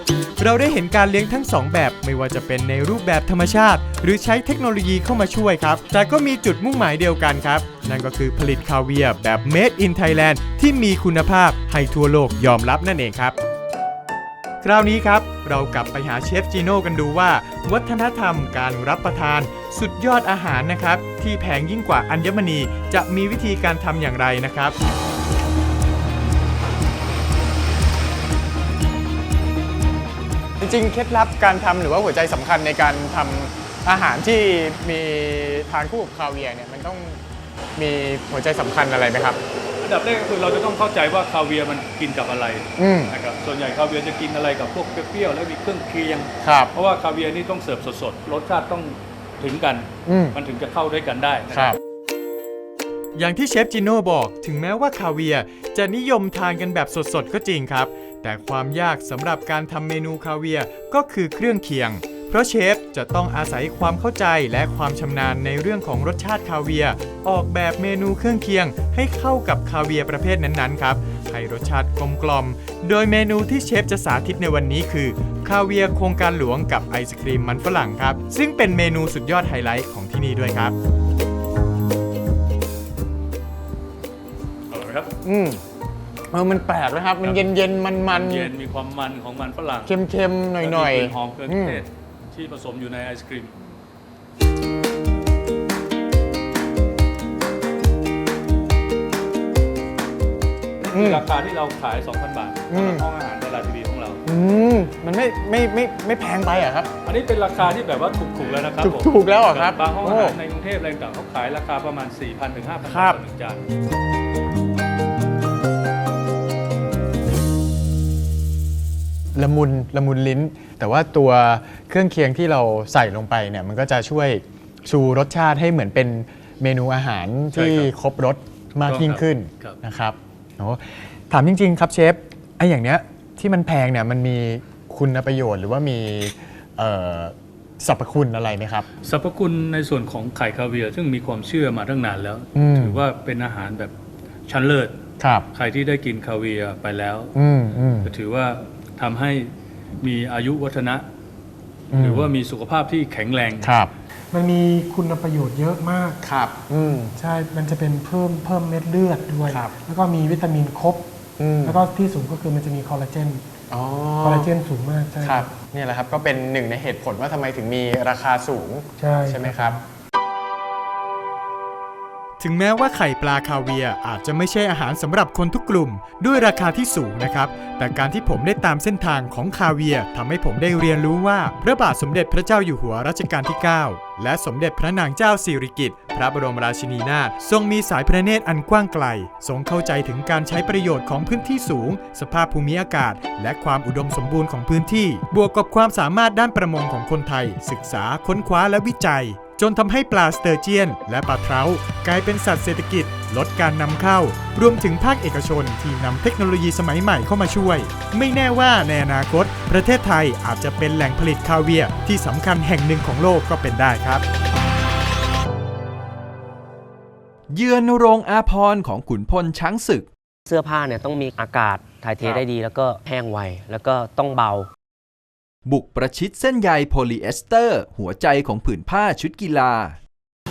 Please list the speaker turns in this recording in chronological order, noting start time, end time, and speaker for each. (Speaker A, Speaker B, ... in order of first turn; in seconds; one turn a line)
Speaker A: 0.4-13.4
Speaker A: 14.6-24.8
Speaker B: 30.6-37.2
Speaker B: 37.8-39.4
Speaker C: 39.8-51.8
Speaker B: 42.8-43.1
Speaker B: 46.4-46.7
Speaker B: 50.1-50.4
Speaker B: 51.5-51.8
Speaker A: 53.2-80.8
Speaker C: 84.7-85.1
Speaker B: 85.2-85.6
Speaker B: 86.3-88.5
Speaker C: 88.1-90.0
Speaker B: 89.9-91.8
Speaker C: 90.6-93.5
Speaker C: 100.8-104.2
Speaker B: 100.9-101.2
Speaker B: 102.7-103.1
Speaker B: 104.3-106.9
Speaker C: 107.0-113.6
Speaker B: 108.8-110.4
Speaker B: 112.9-113.2
Speaker B: 119.3-138.9
Speaker C: 127.5-127.9
Speaker C: 128.9-129.8
Speaker C: 139.0-143.9
Speaker B: 142.6-143.0
Speaker C: 144.5-145.0
Speaker B: 145.2-145.5
Speaker C: 145.5-147.3
Speaker B: 147.3-148.1
Speaker C: 148.0-149.5
Speaker C: 150.0-151.1
Speaker B: 151.9-152.3
Speaker C: 152.0-153.8
Speaker B: 153.6-153.9
Speaker D: 154.3-156.2
Speaker B: 156.2-157.1
Speaker D: 157.2-161.1
Speaker B: 161.4-161.8
Speaker D: 161.6-163.4
Speaker B: 163.7-164.5
Speaker D: 164.2-165.5
Speaker B: 165.2-169.8
Speaker D: 169.0-169.8
Speaker A: 172.4-214.2
Speaker E: 217.5-220.1
Speaker F: 220.5-224.7
Speaker B: 222.2-222.5
Speaker E: 225.7-230.0